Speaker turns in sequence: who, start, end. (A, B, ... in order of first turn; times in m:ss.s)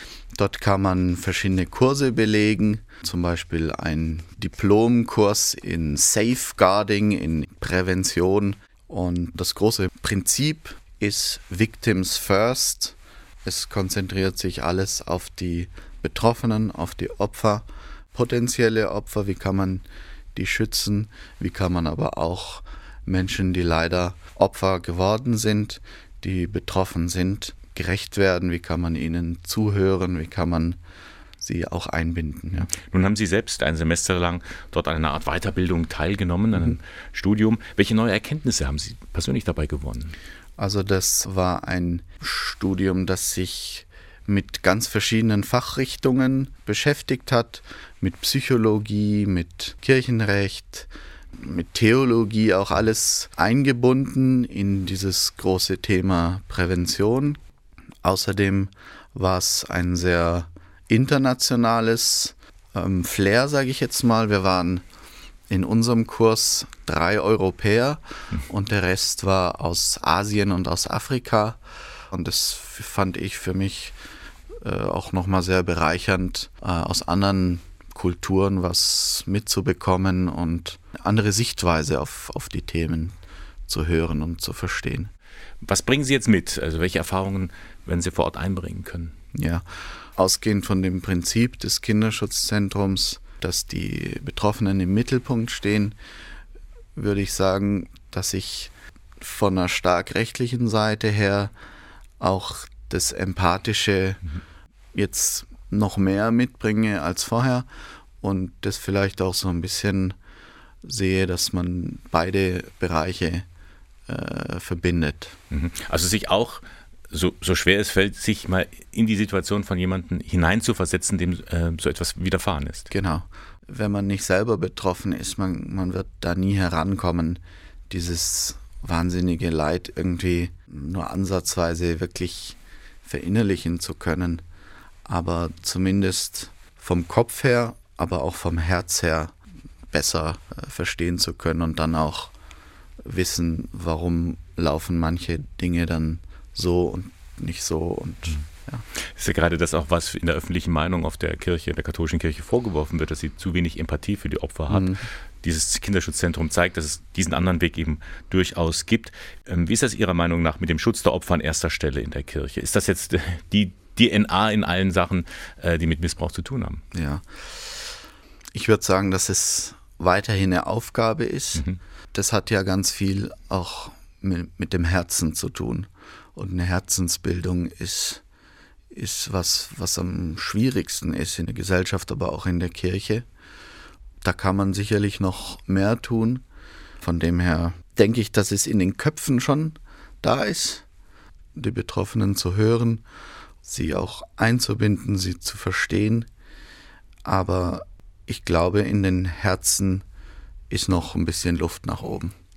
0:00.4-0:30.8 A
0:31.4-0:32.7 A
0:32.7-0:40.2 B
0:40.6-0:57.4 A
0:58.0-1:04.8 A
1:05.5-1:11.6 A
1:12.1-1:14.0 A
1:14.6-1:23.1 A
1:23.7-1:25.1 A
1:25.6-1:29.2 B
1:29.3-1:29.6 A
1:30.2-1:36.0 A
1:37.0-1:41.5 A
1:42.2-1:44.2 A
1:44.9-1:47.7 A
1:48.2-1:50.2 A
1:50.8-1:53.5 A
1:54.1-1:55.4 A
1:55.5-2:02.9 B
2:02.9-2:14.4 A
2:15.1-2:19.4 A
2:19.9-2:22.3 A
2:23.0-2:28.8 A
2:29.0-2:46.8 B
2:34.7-2:35.0 A
2:46.9-2:47.8 A
2:48.6-2:58.2 A
2:58.9-3:03.3 A
3:04.2-3:06.4 A
3:07.0-3:10.8 A
3:11.6-3:13.0 A
3:13.6-3:16.3 A
3:17.2-3:20.0 A
3:20.7-3:22.3 A